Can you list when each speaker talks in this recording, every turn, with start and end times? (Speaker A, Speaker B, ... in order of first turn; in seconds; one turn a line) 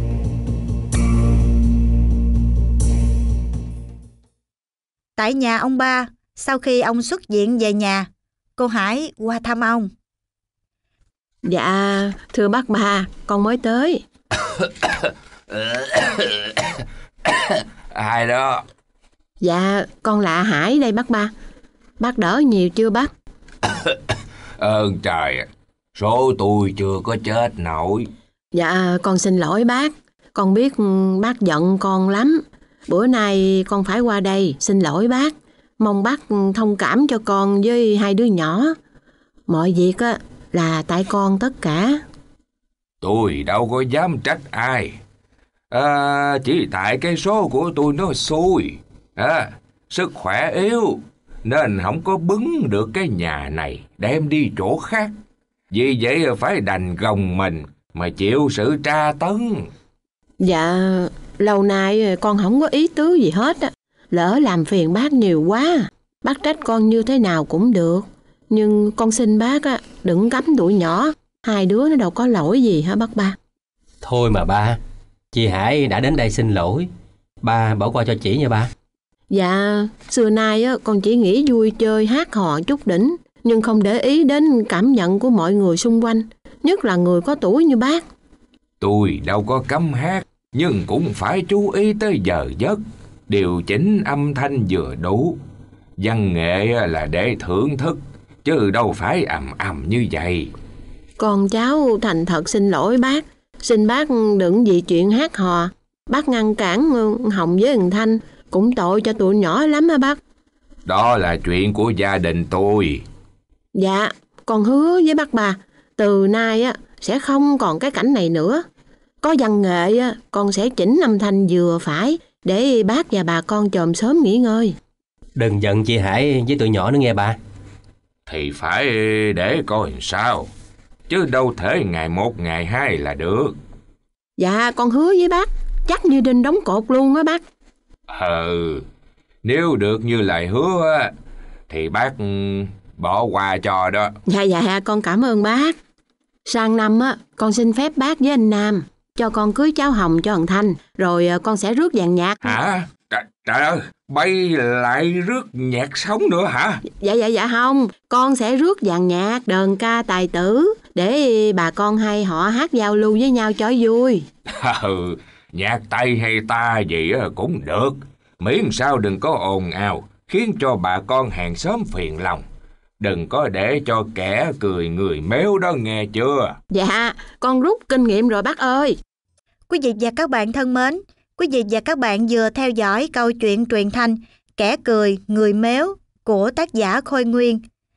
Speaker A: 5.2-9.9
Speaker B: 11.4-14.0
Speaker C: 14.6-18.6
Speaker B: 19.4-21.3
Speaker B: 22.0-23.1
Speaker C: 23.8-28.1
Speaker B: 28.5-38.7
Speaker B: 39.5-42.0
Speaker C: 43.0-45.0
Speaker C: 45.7-55.1
Speaker C: 55.7-59.7
Speaker B: 60.4-73.3
Speaker D: 74.0-74.8
Speaker D: 75.3-76.9
Speaker D: 77.4-78.7
Speaker B: 79.3-88.0
Speaker C: 88.8-95.4
Speaker C: 96.0-100.5
Speaker B: 101.2-110.2
Speaker C: 110.8-113.0
Speaker B: 113.7-118.6
Speaker B: 119.2-124.7
Speaker D: 125.3-127.4
Speaker C: 128.3-130.5
Speaker C: 131.1-133.6
Speaker B: 134.4-137.4
Speaker C: 138.1-138.8
Speaker C: 139.4-141.1
Speaker C: 141.7-144.1
Speaker B: 144.3-145.8
Speaker B: 146.5-152.6
Speaker C: 152.4-156.8
Speaker B: 157.0-164.2
Speaker C: 164.5-172.4
Speaker C: 173.0-176.6
Speaker B: 176.7-179.0
Speaker A: 179.7-187.6